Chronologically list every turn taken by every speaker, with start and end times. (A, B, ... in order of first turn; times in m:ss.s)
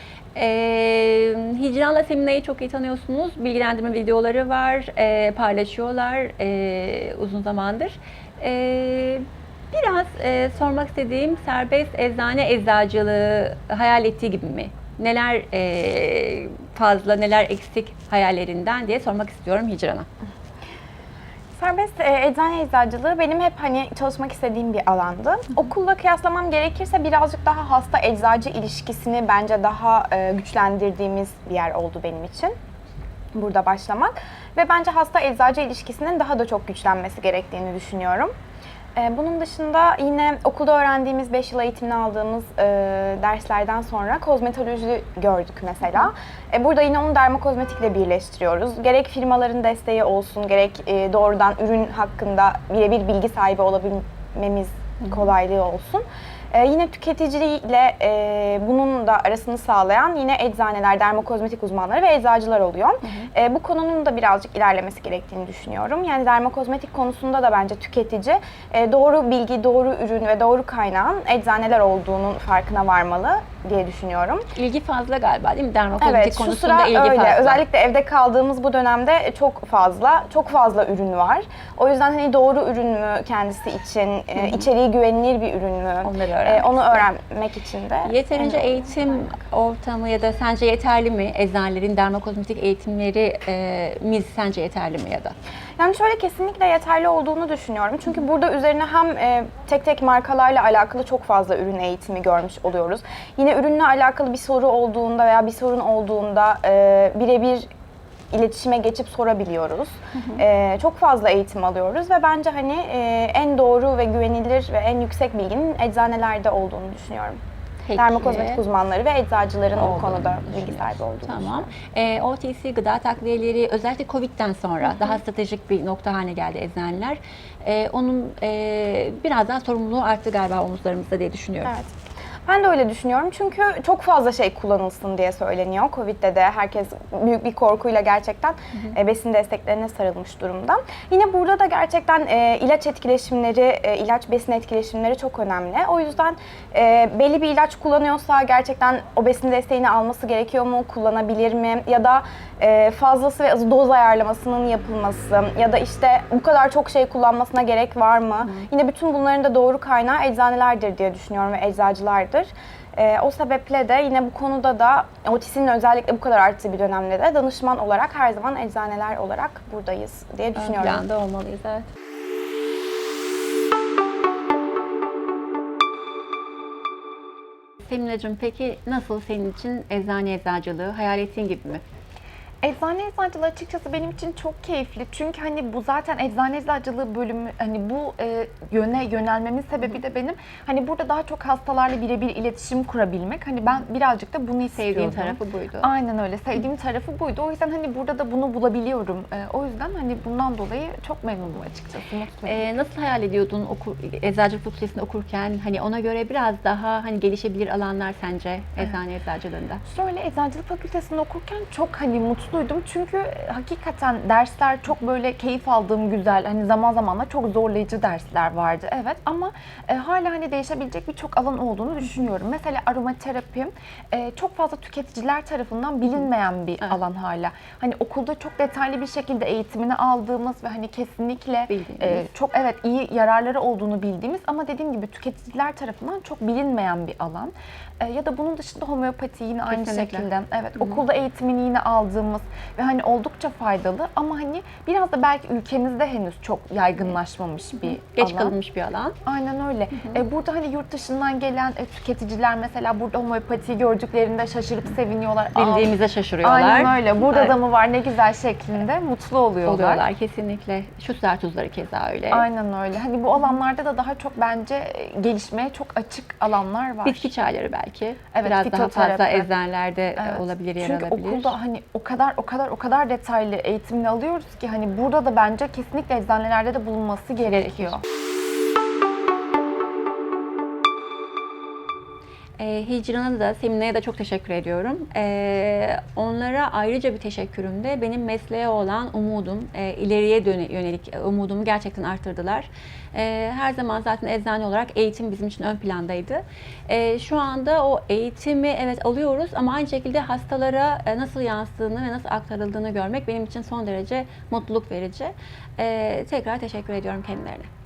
0:00.4-0:20.1 A
0:21.6-0:32.5 B
0:33.3-0:38.3 B
0:39.0-1:14.5 B
0:55.0-0:55.3 A
1:03.0-1:03.3 A
1:14.6-1:17.6 A
1:16.0-1:28.8 B
1:24.4-1:24.7 A
1:26.0-1:27.1 A
1:28.0-1:35.3 A
1:35.8-1:47.7 B
1:48.3-1:57.4 B
1:57.9-1:58.6 A
1:58.0-2:01.7 B
1:59.8-2:11.7 A
2:04.8-2:05.2 B
2:11.6-2:11.9 B
2:12.5-2:51.0 B
2:38.4-2:38.7 A
2:50.6-2:51.9 A
2:57.9-3:01.8 A
3:02.6-3:22.6 C
3:14.7-3:15.9 A
3:22.4-3:29.8 A
3:29.8-4:08.6 C
3:51.7-3:52.3 A
3:59.7-4:01.0 A
4:07.8-4:09.2 A
4:09.3-4:20.0 C
4:10.0-4:10.2 A
4:15.6-4:17.5 A
4:19.6-4:22.5 A
4:22.3-4:27.3 C
4:27.0-4:31.6 A
4:28.3-4:29.5 C
4:30.2-4:38.0 C
4:37.4-4:38.0 A
4:42.6-5:07.7 A